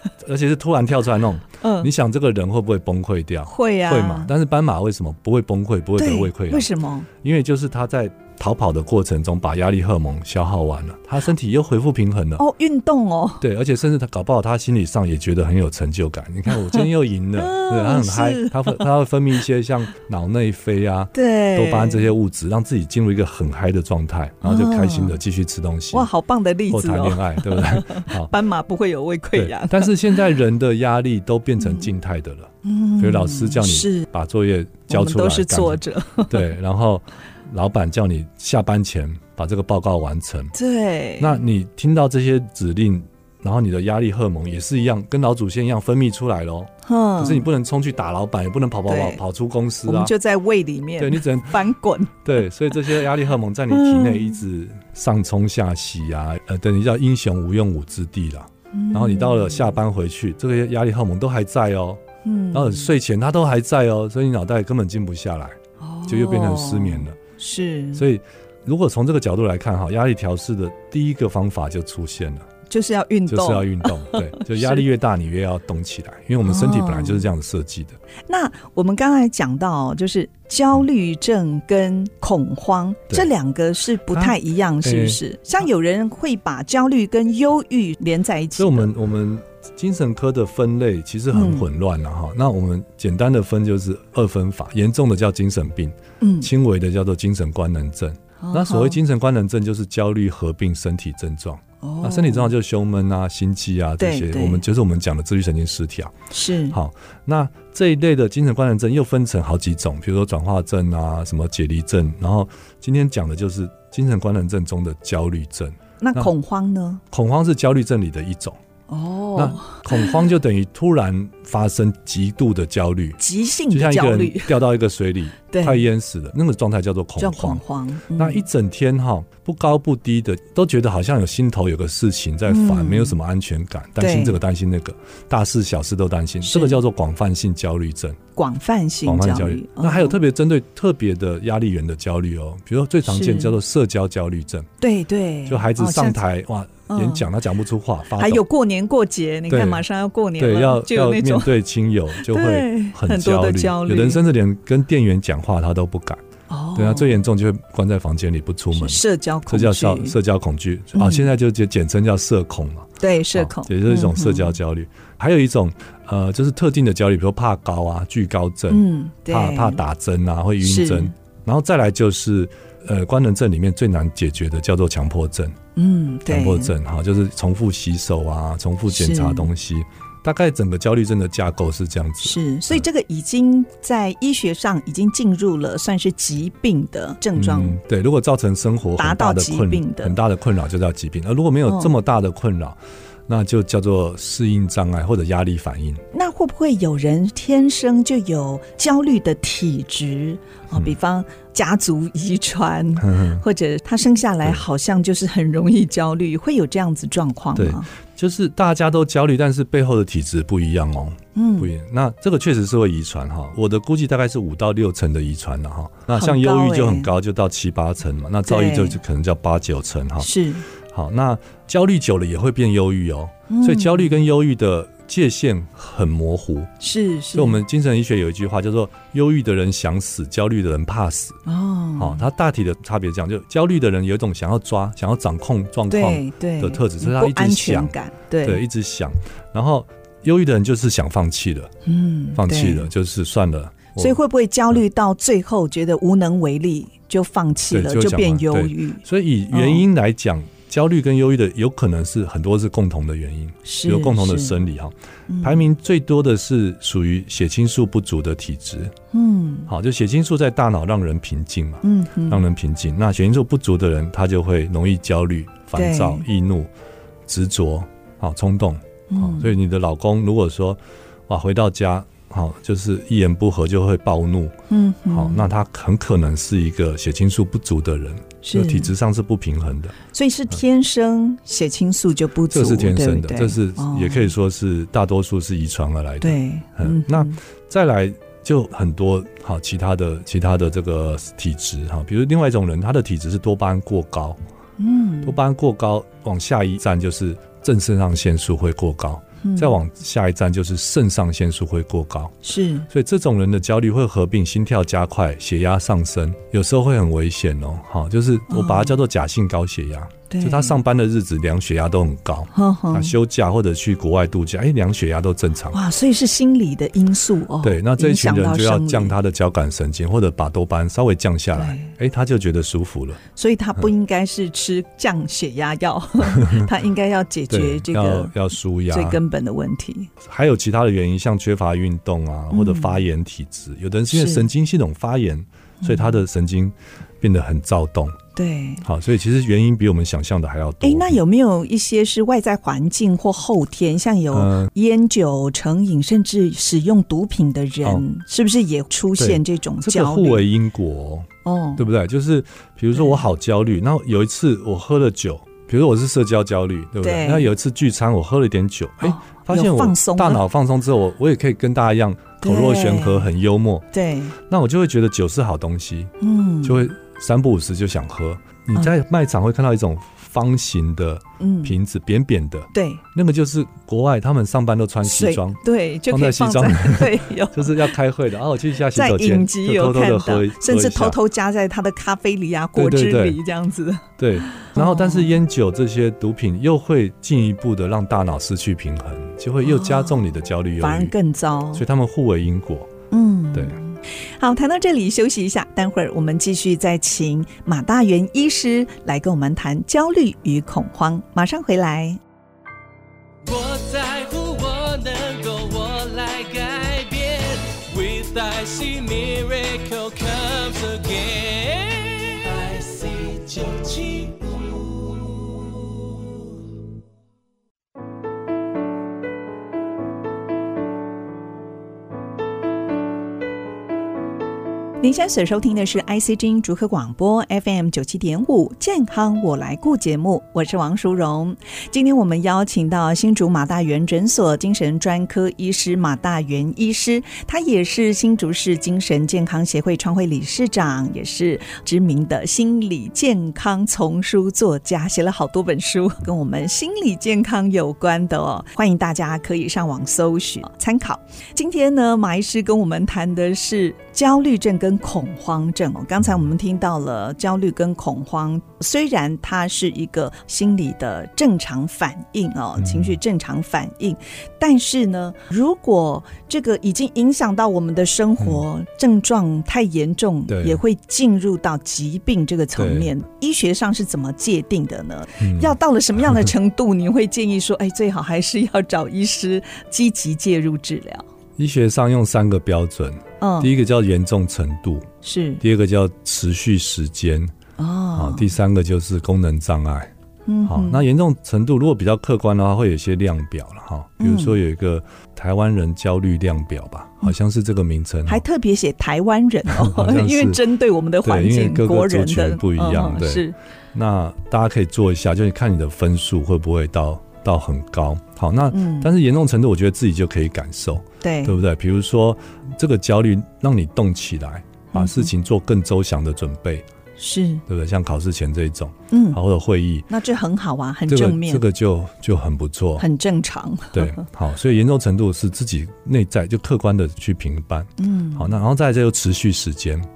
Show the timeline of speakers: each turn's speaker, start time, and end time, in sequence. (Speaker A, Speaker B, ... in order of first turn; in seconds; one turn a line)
Speaker A: 0.2-12.4
Speaker B: 1.6-1.9
Speaker B: 3.5-4.3
Speaker B: 6.0-7.1
Speaker B: 12.4-13.4
Speaker A: 13.4-26.1
Speaker B: 16.5-16.9
Speaker B: 17.4-18.9
Speaker B: 21.1-22.1
Speaker B: 24.4-25.2
Speaker B: 25.9-30.0
Speaker A: 26.7-28.3
Speaker A: 29.4-40.5
Speaker B: 31.6-31.9
Speaker B: 32.6-34.1
Speaker B: 34.9-36.5
Speaker B: 40.5-41.4
Speaker A: 41.2-50.1
Speaker B: 46.9-47.5
Speaker B: 48.9-49.2
Speaker B: 49.9-52.2
Speaker A: 51.0-51.7
Speaker A: 52.2-62.0
Speaker B: 53.7-54.4
Speaker B: 58.7-59.8
Speaker B: 62.2-62.9
Speaker A: 62.5-67.2
Speaker B: 65.8-68.0
Speaker A: 67.9-72.5
Speaker B: 72.7-74.8
Speaker A: 73.3-78.0
Speaker B: 76.4-77.3
Speaker B: 78.3-88.9
Speaker A: 84.1-85.2
Speaker A: 88.6-106.2
Speaker B: 91.3-91.7
Speaker B: 96.2-96.5
Speaker B: 98.4-99.0
Speaker B: 101.8-102.5
Speaker B: 104.0-104.6
Speaker B: 106.3-106.8
Speaker A: 106.7-116.3
Speaker B: 116.0-117.0
Speaker A: 117.1-118.6
Speaker B: 118.9-120.3
Speaker A: 119.3-127.6
Speaker B: 123.2-124.6
Speaker B: 125.5-125.8
Speaker B: 127.2-128.4
Speaker A: 128.2-138.2
Speaker B: 132.5-133.2
Speaker B: 134.0-134.4
Speaker B: 136.4-136.8
Speaker B: 138.4-140.2
Speaker A: 139.1-144.7
Speaker B: 143.1-143.6
Speaker B: 144.8-146.2
Speaker A: 145.5-148.4
Speaker B: 146.9-147.3
Speaker B: 148.2-151.6
Speaker A: 149.5-149.8
Speaker A: 150.4-156.2
Speaker B: 152.1-154.2
Speaker B: 156.5-157.2
Speaker A: 156.8-175.6
Speaker B: 158.7-160.2
Speaker B: 160.9-161.3
Speaker B: 163.0-164.6
Speaker B: 168.7-169.8
Speaker B: 170.6-171.1
Speaker B: 175.8-176.7
Speaker A: 176.3-182.8
Speaker B: 178.9-179.5
Speaker B: 182.2-187.8
Speaker A: 187.4-196.0
Speaker B: 189.0-190.2
Speaker B: 191.7-191.9
Speaker B: 196.1-207.9
Speaker A: 203.0-203.4
Speaker A: 207.6-220.3
Speaker B: 211.3-211.7
Speaker B: 216.2-217.1
Speaker B: 218.5-219.0
Speaker B: 220.2-220.7
Speaker A: 220.9-226.7
Speaker B: 223.5-224.1
Speaker B: 226.8-227.6
Speaker A: 227.3-231.4
Speaker B: 231.5-232.2
Speaker A: 232.0-241.7
Speaker B: 235.9-238.6
Speaker B: 241.8-242.9
Speaker A: 242.3-244.2
Speaker B: 244.0-249.8
Speaker A: 247.7-258.9
Speaker B: 253.7-254.6
Speaker B: 255.3-255.7
Speaker B: 259.1-259.7
Speaker A: 259.7-266.7
Speaker B: 261.8-262.4
Speaker B: 265.8-266.2
Speaker A: 267.3-274.6
Speaker B: 269.1-269.5
Speaker B: 274.7-275.5
Speaker A: 275.1-280.0
Speaker B: 278.4-278.9
Speaker B: 280.1-284.3
Speaker A: 282.5-294.4
Speaker B: 286.2-287.4
Speaker B: 294.8-295.4
Speaker A: 295.2-315.8
Speaker B: 299.4-299.8
Speaker B: 302.4-302.9
Speaker B: 308.5-309.0
Speaker B: 310.3-310.8
Speaker B: 312.5-313.1
Speaker B: 315.7-319.2
Speaker A: 317.6-323.2
Speaker B: 321.6-321.9
Speaker B: 323.4-328.4
Speaker A: 326.2-326.7
Speaker A: 327.5-329.2
Speaker B: 328.9-330.1
Speaker A: 330.2-338.2
Speaker B: 332.5-333.0
Speaker B: 334.1-334.5
Speaker B: 335.8-336.2
Speaker B: 338.4-338.9
Speaker A: 338.8-341.2
Speaker B: 340.8-350.5
Speaker A: 344.3-344.7
Speaker A: 349.2-363.9
Speaker B: 351.4-351.8
Speaker B: 352.9-353.2
Speaker B: 357.0-357.5
Speaker B: 359.0-360.4
Speaker B: 362.4-363.3
Speaker B: 363.9-364.4
Speaker A: 364.4-381.2
Speaker B: 366.2-366.9
Speaker B: 371.4-371.8
Speaker B: 372.7-373.0
Speaker B: 375.0-377.9
Speaker B: 378.9-385.3
Speaker A: 382.8-383.4
Speaker A: 384.2-391.1
Speaker B: 389.6-390.2
Speaker B: 390.8-391.8
Speaker A: 391.7-392.9
Speaker B: 393.1-402.2
Speaker C: 403.4-416.6
Speaker B: 425.0-481.2
Speaker A: 462.8-463.2
Speaker A: 470.5-470.8
Speaker A: 472.8-473.1
Speaker A: 475.4-475.8
Speaker A: 481.6-485.1
Speaker B: 483.4-483.7
Speaker B: 485.2-485.6
Speaker A: 485.6-487.5
Speaker B: 487.8-488.5
Speaker A: 488.1-490.1
Speaker B: 490.5-491.0
Speaker A: 490.7-498.4
Speaker B: 494.2-494.6
Speaker B: 498.3-503.6
Speaker A: 499.7-500.6
Speaker A: 501.2-516.9
Speaker B: 508.7-509.1
Speaker B: 511.2-511.6
Speaker B: 514.9-515.3
Speaker B: 517.2-517.6
Speaker A: 517.7-520.1
Speaker B: 519.1-519.4
Speaker B: 520.1-521.6
Speaker A: 521.1-523.0
Speaker B: 523.0-524.2
Speaker A: 523.9-530.1
Speaker B: 528.0-528.5